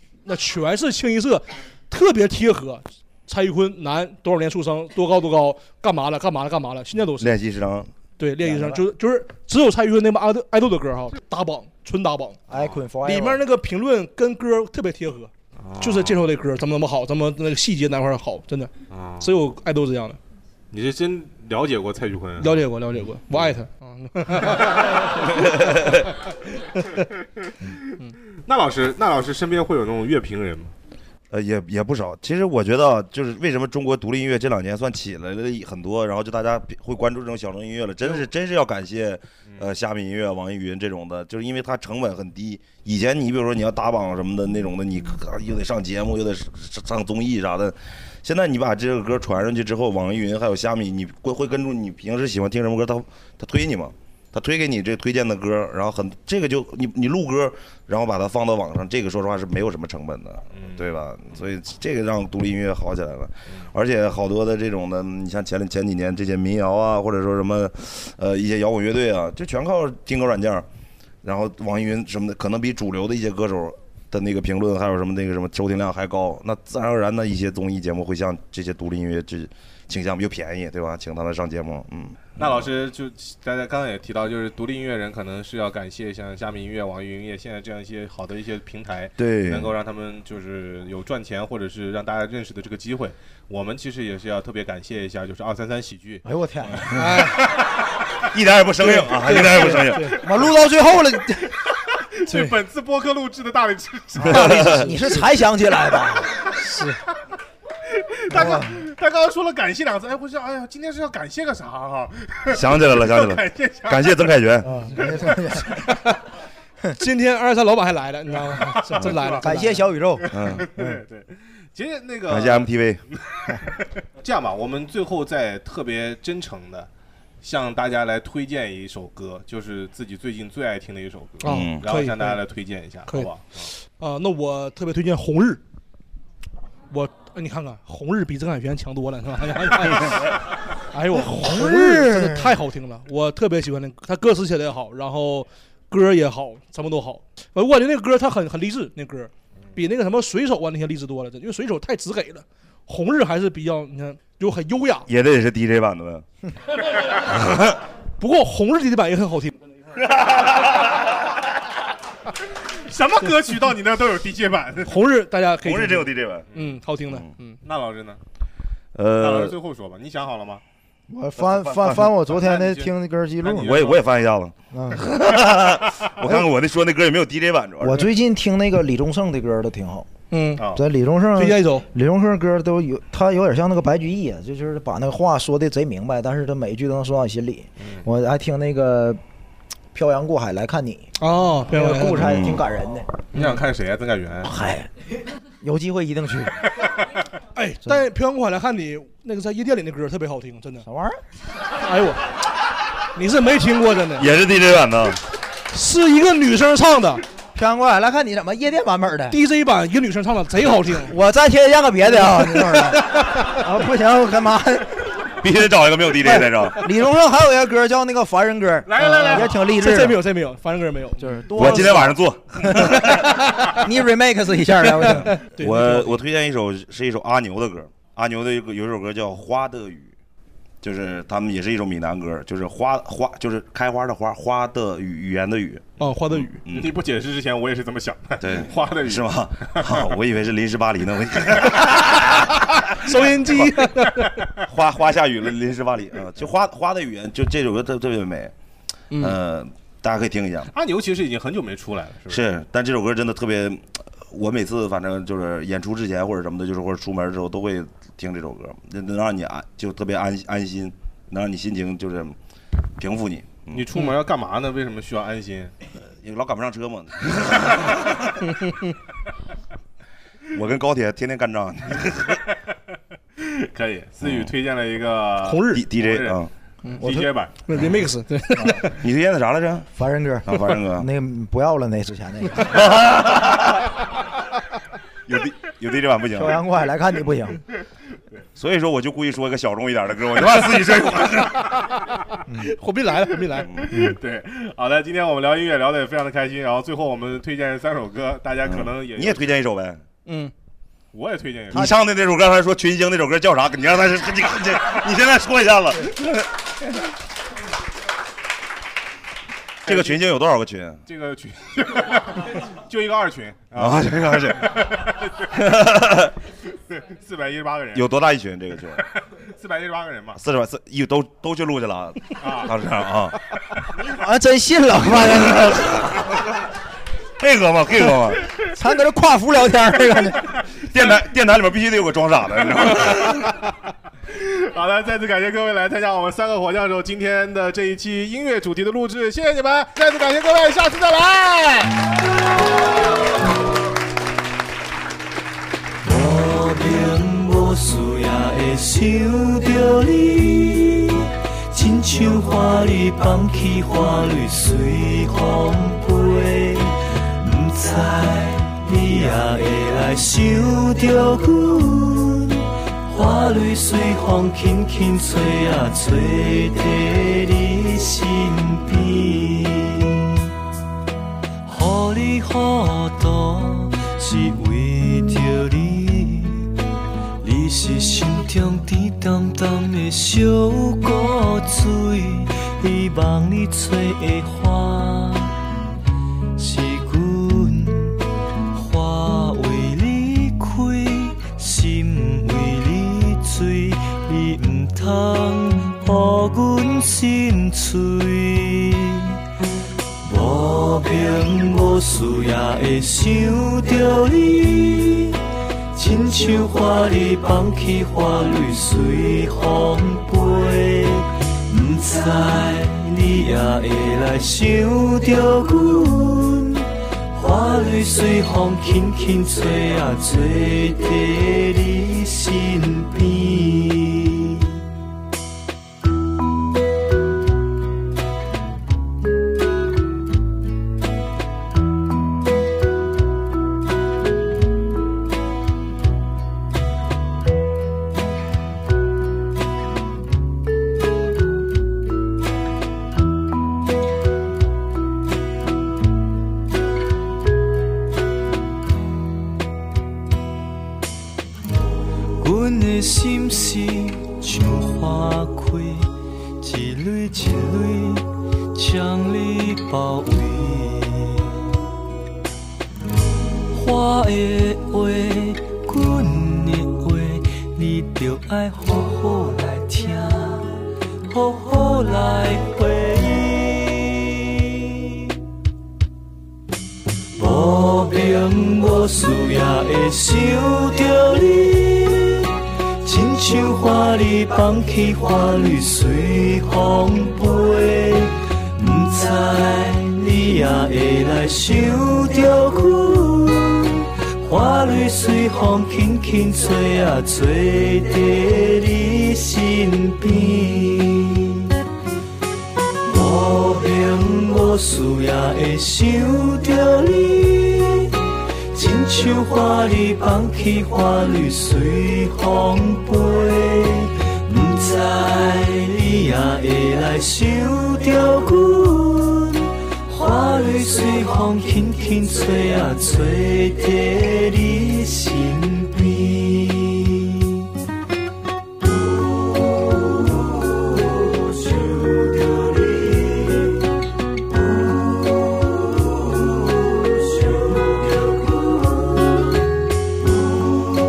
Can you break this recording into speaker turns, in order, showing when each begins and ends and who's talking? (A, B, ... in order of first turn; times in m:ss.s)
0:00.2-0:07.3 A
0:07.2-0:07.9 B
0:08.2-0:12.4 A
0:08.4-0:08.8 C
0:12.5-0:13.4 C
0:12.5-0:12.8 D
0:13.0-0:20.2 A
0:15.6-0:16.2 D
0:18.9-0:19.4 D
0:20.7-0:22.6 D
0:22.4-0:25.2 A
0:24.4-0:24.9 D
0:25.3-0:26.0 B
0:26.8-0:27.0 A
0:28.4-0:30.7 D
0:31.3-1:10.7 B
1:00.5-1:01.4 D
1:11.2-1:22.7 B
1:22.4-1:36.2 D
1:29.2-1:29.7 B
1:36.2-1:37.2 C
1:37.0-1:37.4 A
1:38.3-1:40.2 B
1:38.8-1:40.2 A
1:40.1-1:41.6 C
1:42.1-1:44.9 D
1:44.2-1:44.9 B
1:44.2-1:46.5 C
1:46.6-1:47.0 A
1:47.9-1:54.2 D
1:48.3-1:48.8 C
1:52.5-1:54.8 B
1:54.6-1:55.9 C
1:55.9-1:56.2 A
1:57.0-1:59.9 A
1:58.7-1:59.4 D
1:59.4-2:01.0 C
2:00.2-2:03.4 D
2:00.3-2:00.7 B
2:02.3-2:03.0 B
2:04.2-2:06.9 D
2:07.4-2:13.7 D
2:11.4-2:12.4 A
2:11.4-2:11.8 B
2:13.1-2:15.6 A
2:16.9-2:35.1 A
2:21.2-2:22.5 C
2:35.1-2:36.2 B
2:37.2-2:37.8 B
2:38.2-2:39.5 A
2:40.0-2:41.1 B
2:42.8-2:45.0 D
2:44.8-2:47.6 A
2:45.6-2:46.5 B
2:46.5-2:46.8 D
2:47.6-2:48.2 D
2:48.9-2:49.6 B
2:49.2-2:50.6 D
2:51.1-2:53.8 C
2:51.4-2:52.1 B
2:52.3-2:54.0 D
2:53.6-2:58.1 B
2:54.7-2:55.1 C
2:57.8-3:00.1 C
3:00.3-3:00.6 A
3:00.6-3:00.8 D
3:00.7-3:09.2 C
3:01.4-3:01.8 A
3:09.9-3:11.1 C
3:11.2-3:12.2 A
3:11.7-3:13.1 C
3:12.1-3:12.6 B
3:13.3-3:14.5 D
3:14.4-3:14.9 C
3:15.6-3:16.7 C
3:17.5-3:20.8 A
3:20.8-3:21.2 C
3:21.8-3:22.2 A
3:23.1-3:24.3 A
3:24.2-3:25.2 B
3:25.7-3:27.2 A
3:27.5-3:29.4 C
3:29.3-3:31.1 A
3:31.0-3:35.1 C
3:32.2-3:33.6 A
3:35.4-3:36.8 B
3:36.3-3:40.2 C
3:38.8-3:39.6 D
3:39.0-3:42.1 A
3:41.2-3:45.3 C
3:41.5-3:43.3 B
3:43.0-3:43.7 A
3:45.0-3:46.2 A
3:45.3-3:50.1 B
3:50.8-3:57.0 B
3:56.0-3:56.6 A
3:56.7-4:00.1 D
3:58.4-4:02.6 B
4:03.0-4:04.5 A
4:03.4-4:03.7 B
4:04.6-4:08.5 B
4:09.1-4:10.7 B
4:10.7-4:12.4 D
4:12.3-4:22.4 B
4:23.0-4:23.8 B
4:23.7-4:25.7 D
4:26.0-4:28.3 B
4:30.5-4:32.4 B
4:33.4-4:36.4 D
4:34.2-4:34.5 B
4:35.4-4:35.8 A
4:35.7-4:36.5 B
4:36.8-4:37.1 A
4:37.0-4:37.2 C
4:37.0-4:37.5 D
4:37.6-4:38.9 A
4:39.0-4:41.1 B
4:40.0-4:42.8 C
4:42.6-4:43.9 B
4:45.3-4:46.6 B
4:46.3-4:47.6 C
4:48.6-4:51.8 B
4:52.6-4:53.7 A
4:53.7-4:54.0 B
4:53.8-4:59.6 D
4:58.6-5:00.0 B
5:00.2-5:00.5 A
5:01.1-5:01.9 D
5:01.7-5:06.4 B
5:09.8-5:11.0 B
5:09.8-5:10.2 D
5:11.0-5:15.5 D
5:13.7-5:14.9 B
5:15.5-5:16.3 B
5:16.9-5:18.1 D
5:17.9-5:19.0 B
5:19.1-5:20.4 D
5:20.3-5:23.4 B
5:22.4-5:22.7 D
5:24.0-5:26.3 C
5:27.4-5:28.4 B
5:28.6-5:30.5 C
5:30.8-5:33.4 B
5:34.3-5:41.9 D
5:46.0-6:10.4 E
6:11.6-6:16.7 E
6:17.4-6:25.6 E
6:26.6-6:28.2 E
6:28.7-6:39.4 E
6:40.2-6:45.4 E
6:45.9-7:04.7 E
7:32.4-7:41.6 E
7:43.7-7:54.8 E
7:57.4-8:21.7 E
8:23.1-8:28.2 E
8:28.7-8:47.6 E
8:51.1-8:53.8 E
8:54.7-8:55.5 E
8:56.5-8:59.5 E